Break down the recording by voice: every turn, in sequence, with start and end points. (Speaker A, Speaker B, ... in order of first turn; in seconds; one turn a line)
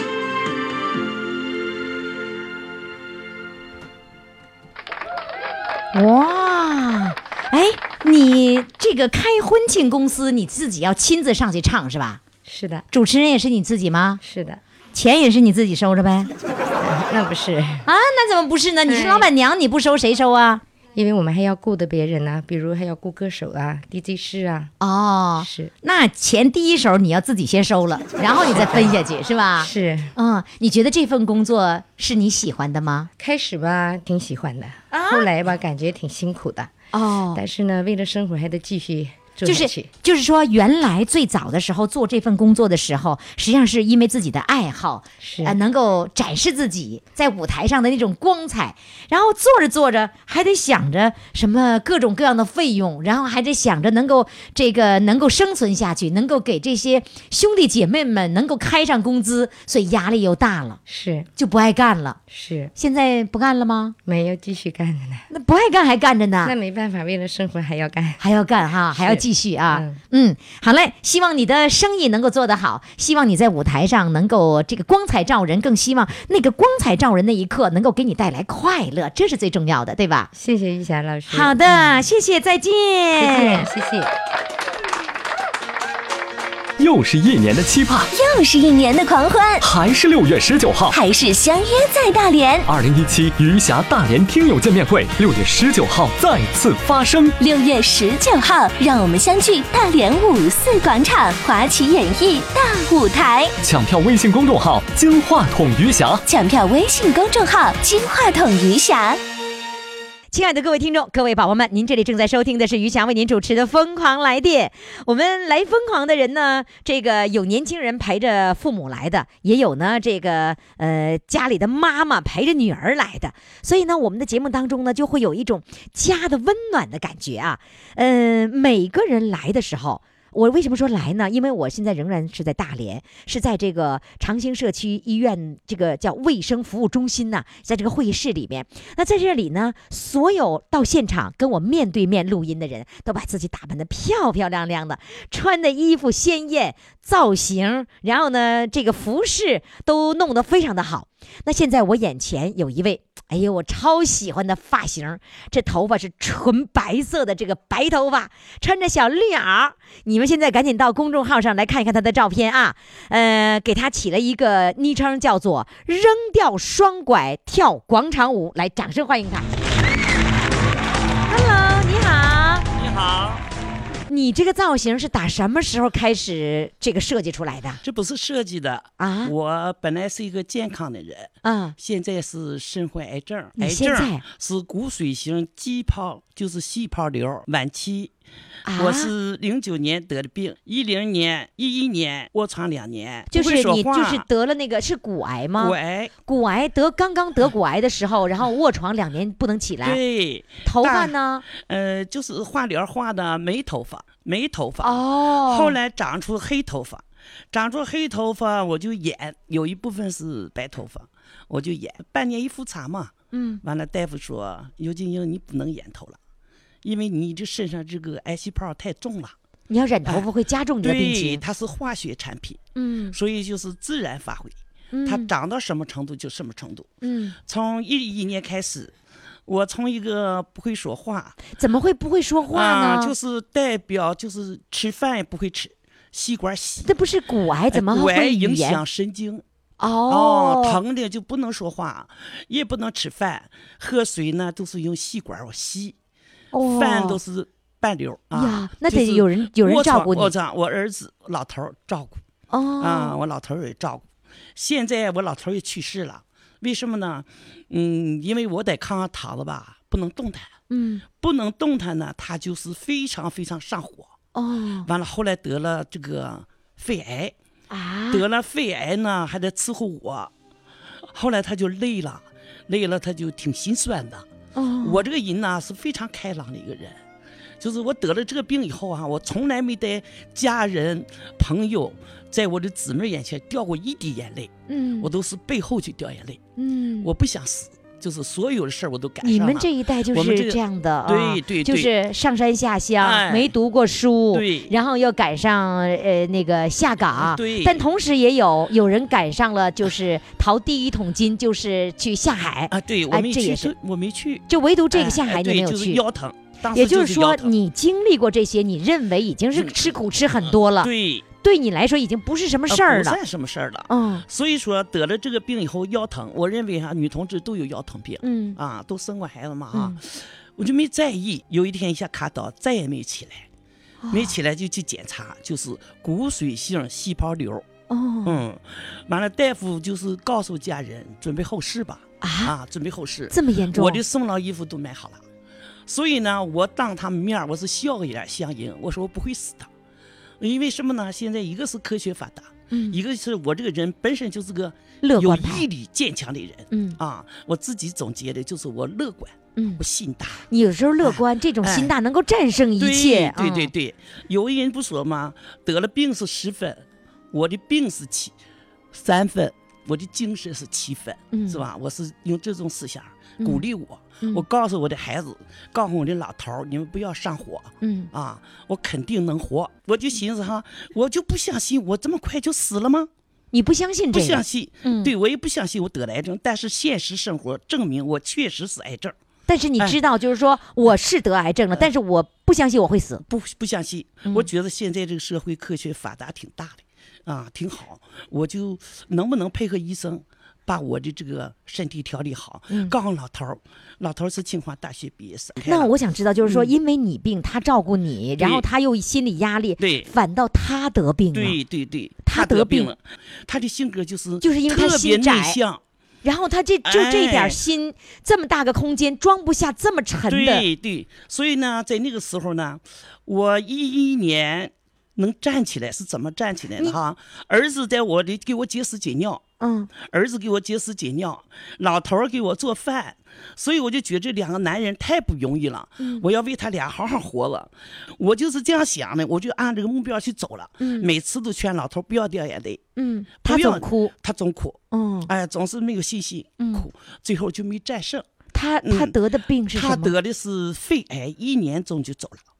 Speaker A: 5.9-12.2
Speaker B: 12.4-12.8
Speaker A: 12.9-14.2
Speaker B: 14.2-14.6
Speaker A: 14.9-16.3
Speaker B: 16.8-17.9
Speaker A: 17.8-20.6
Speaker B: 18.9-19.3
Speaker B: 20.9-24.7
Speaker A: 24.8-33.1
Speaker B: 25.4-25.7
Speaker B: 28.4-29.0
Speaker B: 29.6-30.1
Speaker B: 33.2-36.7
Speaker A: 34.9-35.3
Speaker A: 36.9-37.4
Speaker B: 37.3-39.9
Speaker A: 39.4-60.8
Speaker B: 45.2-45.5
Speaker B: 60.9-61.3
Speaker A: 61.4-62.2
Speaker B: 62.3-62.7
Speaker A: 62.7-64.0
Speaker B: 64.0-65.2
Speaker A: 65.3-66.5
Speaker B: 66.4-68.2
Speaker A: 68.2-80.3
Speaker B: 68.9-70.0
Speaker B: 80.3-82.0
Speaker A: 81.3-83.7
Speaker B: 83.2-84.1
Speaker C: 86.8-88.1
Speaker D: 88.1-89.6
Speaker C: 89.6-90.9
Speaker D: 90.9-92.7
Speaker C: 92.7-97.3
Speaker D: 97.4-103.5
Speaker C: 103.6-106.2
Speaker D: 106.3-109.2
Speaker A: 110.3-169.5
Speaker A: 171.3-172.7
Speaker E: 172.8-173.4
Speaker A: 174.1-177.8
Speaker E: 177.8-188.1
Speaker A: 179.0-179.3
Speaker A: 181.4-181.7
Speaker A: 183.6-184.2
Speaker A: 188.6-189.1
Speaker E: 188.7-194.2
Speaker A: 193.3-200.0
Speaker E: 195.6-196.1
Speaker E: 199.8-216.2
Speaker A: 200.6-201.4
Speaker A: 204.8-205.8
Speaker A: 213.3-213.6
Speaker E: 216.8-219.3
Speaker A: 219.7-221.4
Speaker E: 220.8-222.6
Speaker A: 222.8-223.2
Speaker E: 223.1-226.9
Speaker A: 224.9-225.3
Speaker A: 227.0-227.3
Speaker E: 227.5-228.9
Speaker E: 229.4-231.4
Speaker A: 231.5-233.1
Speaker E: 232.5-236.9
Speaker A: 236.8-238.8
Speaker E: 237.7-239.4
Speaker A: 239.8-240.8
Speaker E: 240.1-245.9
Speaker A: 246.5-247.2
Speaker E: 246.6-252.2
Speaker A: 248.3-250.3
Speaker A: 252.5-253.2
Speaker E: 252.8-260.5
Speaker A: 260.7-261.0
Speaker E: 261.2-264.1
Speaker A: 264.3-264.9
Speaker E: 264.8-267.3
Speaker A: 267.7-268.2
Speaker E: 268.1-270.3
Speaker E: 271.1-274.2
Speaker A: 274.6-275.0
Speaker E: 274.8-277.0
Speaker E: 277.6-286.4
Speaker A: 284.7-285.1
Speaker A: 286.6-287.1
Speaker E: 287.0-291.9
Speaker A: 289.2-303.7
Speaker E: 293.0-293.5
Speaker E: 294.3-294.7
Speaker E: 297.2-297.8
Speaker E: 302.7-307.5
Speaker A: 304.5-306.0
Speaker A: 306.7-313.2
Speaker E: 309.5-309.9
Speaker E: 310.4-311.3
Speaker E: 312.7-323.4
Speaker A: 313.9-314.2
Speaker A: 318.2-318.6
Speaker A: 319.7-320.0
Speaker A: 324.0-324.3
Speaker E: 324.1-327.6
Speaker A: 327.9-328.4
Speaker E: 328.2-335.2
Speaker A: 332.2-332.5
Speaker A: 333.3-334.0
Speaker E: 335.9-339.7
Speaker E: 340.4-350.4
Speaker A: 342.7-343.0
Speaker A: 345.0-345.6
Speaker A: 346.7-347.0
Speaker A: 349.6-349.8
Speaker A: 350.5-353.7
Speaker E: 351.0-351.9
Speaker E: 352.8-358.3
Speaker E: 358.9-373.1
Speaker A: 361.3-361.6
Speaker A: 367.8-368.1
Speaker A: 373.5-375.1
Speaker E: 374.1-379.1
Speaker A: 379.5-383.2
Speaker E: 383.2-395.9
Speaker A: 395.6-401.6
Speaker E: 396.4-396.7
Speaker E: 398.4-398.6
Speaker E: 399.8-400.1
Speaker E: 401.3-405.8
Speaker A: 402.2-402.9
Speaker A: 404.4-405.6
Speaker A: 406.2-410.6
Speaker E: 406.8-407.6
Speaker E: 410.2-419.4
Speaker A: 419.6-419.9
Speaker E: 419.9-432.8
Speaker A: 426.0-426.2
Speaker A: 430.8-431.1
Speaker A: 432.9-434.1
Speaker E: 433.4-438.3
Speaker A: 434.9-435.3
Speaker A: 436.6-436.8
Speaker A: 438.5-440.1
Speaker E: 438.8-439.1
Speaker E: 439.7-442.4